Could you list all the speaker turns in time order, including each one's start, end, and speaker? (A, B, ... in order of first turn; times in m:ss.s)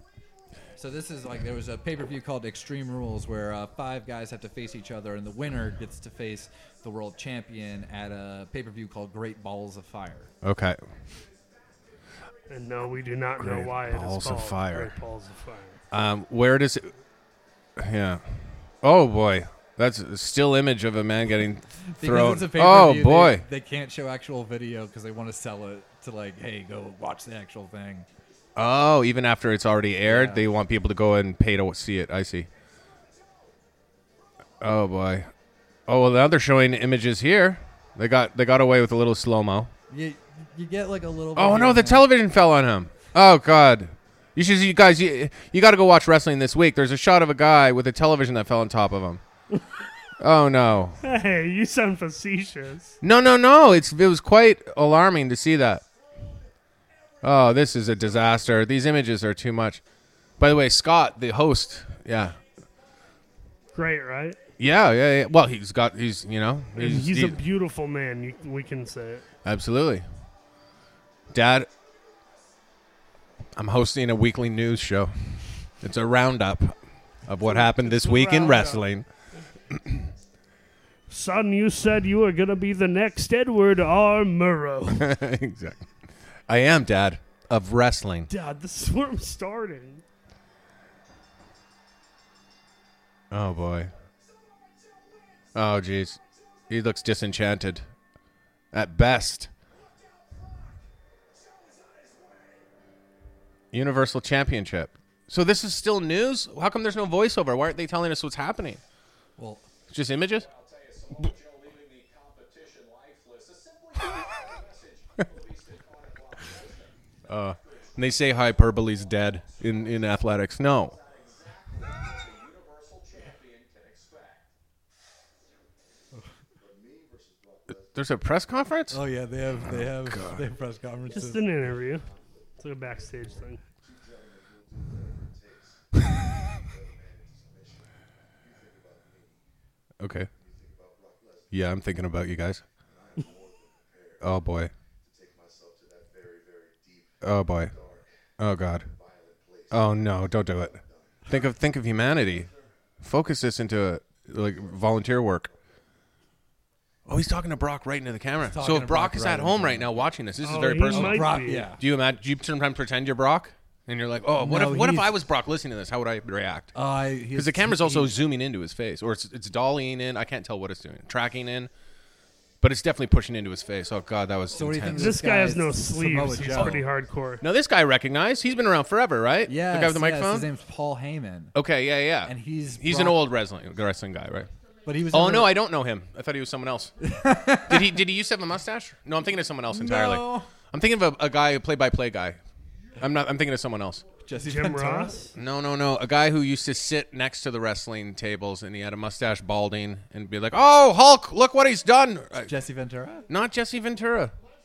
0:00.8-0:10.3 A
0:10.4-0:10.8 B
0:12.5-0:15.8 C
0:13.4-0:14.9 B
0:15.9-0:16.9 B
0:17.8-0:18.2 B
0:18.8-0:23.4 B
0:22.0-0:28.1 A
0:28.6-0:32.5 B
0:30.1-0:30.4 A
0:34.6-0:35.3 B
0:35.9-0:39.7 B
0:39.9-0:42.1 A
0:41.4-0:49.2 B
0:50.2-0:51.0 B
0:51.0-0:53.0 C
0:53.0-0:55.8 B
0:57.2-0:59.8 B
1:00.4-1:02.4 B
1:03.7-1:04.4 C
1:04.6-1:07.4 B
1:06.7-1:09.2 C
1:09.4-1:10.0 B
1:11.3-1:11.7 B
1:13.6-1:19.1 B
1:17.4-1:18.8 C
1:21.1-1:25.1 C
1:25.0-1:25.9 B
1:26.5-1:28.3 B
1:28.3-1:30.0 C
1:33.3-1:33.9 B
1:35.6-1:37.8 B
1:38.7-1:39.5 B
1:43.7-1:48.8 B
1:49.4-1:49.6 A
1:49.9-1:50.5 B
1:57.3-2:01.0 B
2:07.7-2:09.0 B
2:08.9-2:11.4 A
2:09.6-2:10.4 B
2:11.1-2:12.1 C
2:12.6-2:13.6 C
2:20.0-2:20.3 B
2:21.5-2:22.6 B
2:24.2-2:24.7 B
2:27.2-2:29.0 B
2:29.7-2:35.5 B
2:37.1-2:46.7 B
2:38.5-2:39.9 A
2:40.4-2:41.7 C
2:40.9-2:41.8 A
2:44.4-2:45.1 A
2:46.7-2:48.1 A
2:47.3-2:51.7 B
2:52.6-2:55.2 B
2:54.5-2:56.8 A
2:54.9-2:57.4 C
2:57.4-3:00.5 B
2:59.4-3:01.5 A
3:01.6-3:04.5 B
3:02.2-3:03.2 A
3:04.9-3:05.6 A
3:05.1-3:06.9 B
3:07.0-3:08.0 A
3:07.6-3:12.4 B
3:09.7-3:10.5 A
3:13.0-3:14.1 B
3:14.2-3:15.2 A
3:14.4-3:15.3 C
3:15.4-3:22.5 B
3:22.4-3:23.2 A
3:23.3-3:24.3 B